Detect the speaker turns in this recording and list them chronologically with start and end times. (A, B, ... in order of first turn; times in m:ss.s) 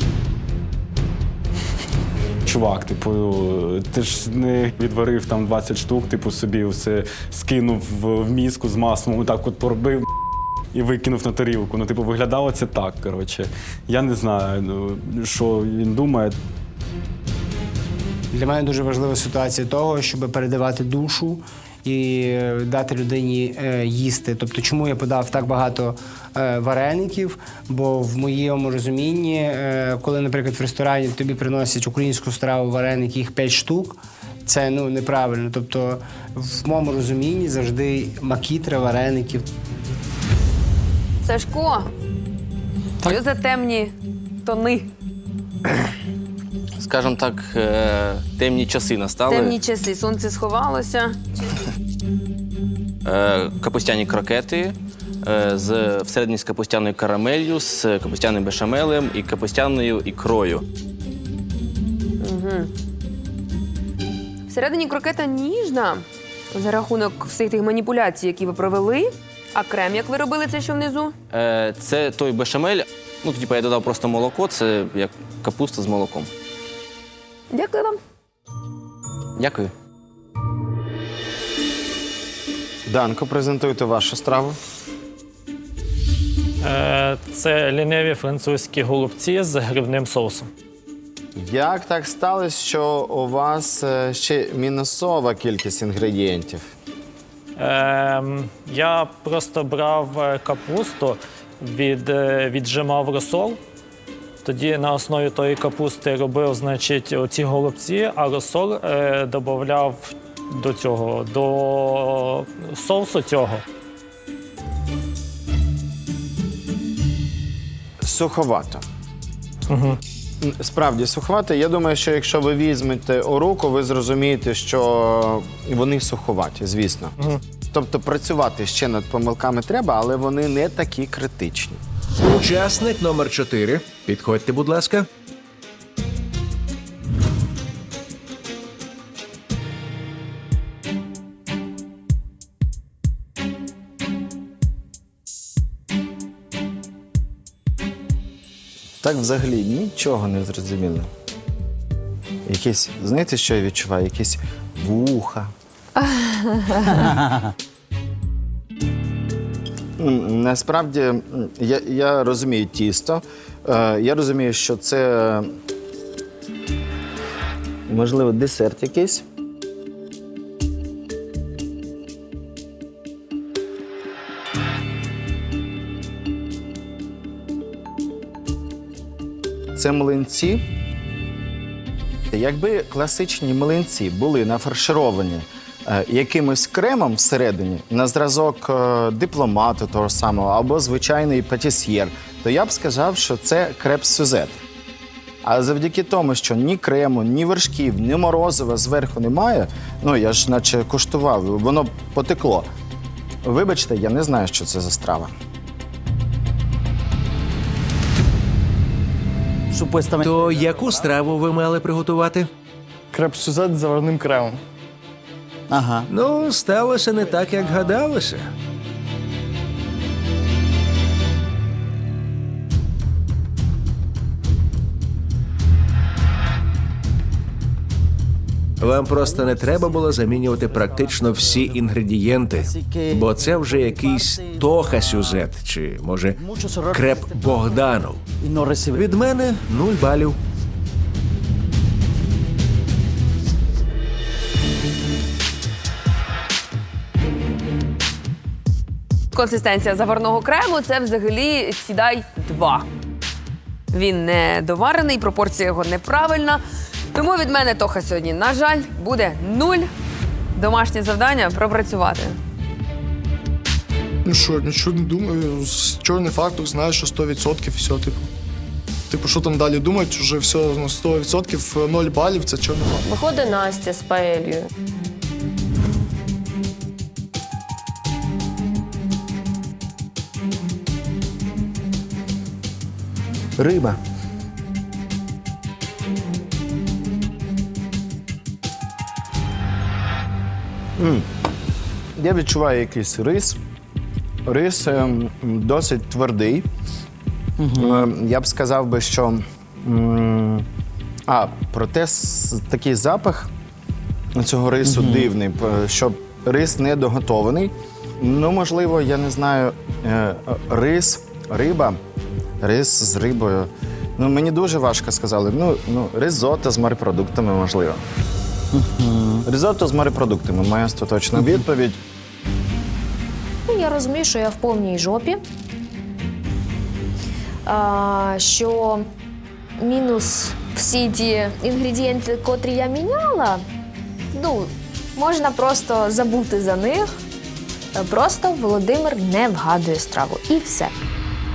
0:02.5-0:10.1 A
0:10.7-0:16.4 A
0:18.3-0:39.4 B
0:41.2-0:41.9 C
0:43.0-0:43.9 C
0:44.4-0:44.9 C
0:46.8-0:49.6 D
0:49.3-0:51.2 C
0:53.0-1:00.6 D
1:02.2-1:02.7 C
1:04.5-1:11.1 C
1:11.3-1:16.3 D
1:17.5-1:18.0 C
1:19.4-1:19.7 D
1:22.8-1:24.6 E
1:26.6-1:30.5 F
1:31.4-1:36.7 E
1:37.6-1:43.6 F
1:44.4-1:53.6 F
1:58.0-1:58.8 E
1:59.7-2:00.0 F
2:00.4-2:07.1 E
2:07.7-2:11.8 E
2:12.2-2:15.1 G
2:29.0-2:31.1 E
2:32.4-2:35.5 E
2:36.9-2:37.5 H
2:40.0-2:45.5 E
2:47.9-2:49.2 E
2:59.8-3:00.6 E
3:02.3-3:14.6 E
3:15.4-3:22.7 E
3:23.4-3:25.3 E
3:29.7-3:31.0 H
3:30.2-3:32.5 G
3:33.1-3:34.5 I
3:35.7-3:36.1 H
3:36.1-3:38.5 G
3:48.8-3:58.2 G
3:48.8-3:51.9 H
3:52.6-3:55.5 H
3:56.4-3:59.0 H
3:58.9-4:00.4 G
4:09.3-4:12.9 C
4:13.9-4:16.6 C
4:17.1-4:19.9 C
4:20.5-4:22.4 C
4:24.2-4:28.2 I
4:29.1-4:33.0 I
4:43.6-4:44.0 E
4:51.0-4:51.3 E
4:52.2-4:53.6 E
4:54.4-4:56.6 E
4:57.6-4:58.1 H
4:57.8-5:00.6 E
5:01.3-5:03.5 E
5:04.4-5:12.0 E
5:04.8-5:05.3 H
5:12.6-5:18.0 E
5:18.7-5:19.4 H
5:19.4-5:22.0 E
5:23.7-5:25.4 J
5:27.6-5:29.0 J
5:29.8-5:33.6 J
5:34.3-5:37.1 J
5:37.9-5:40.9 J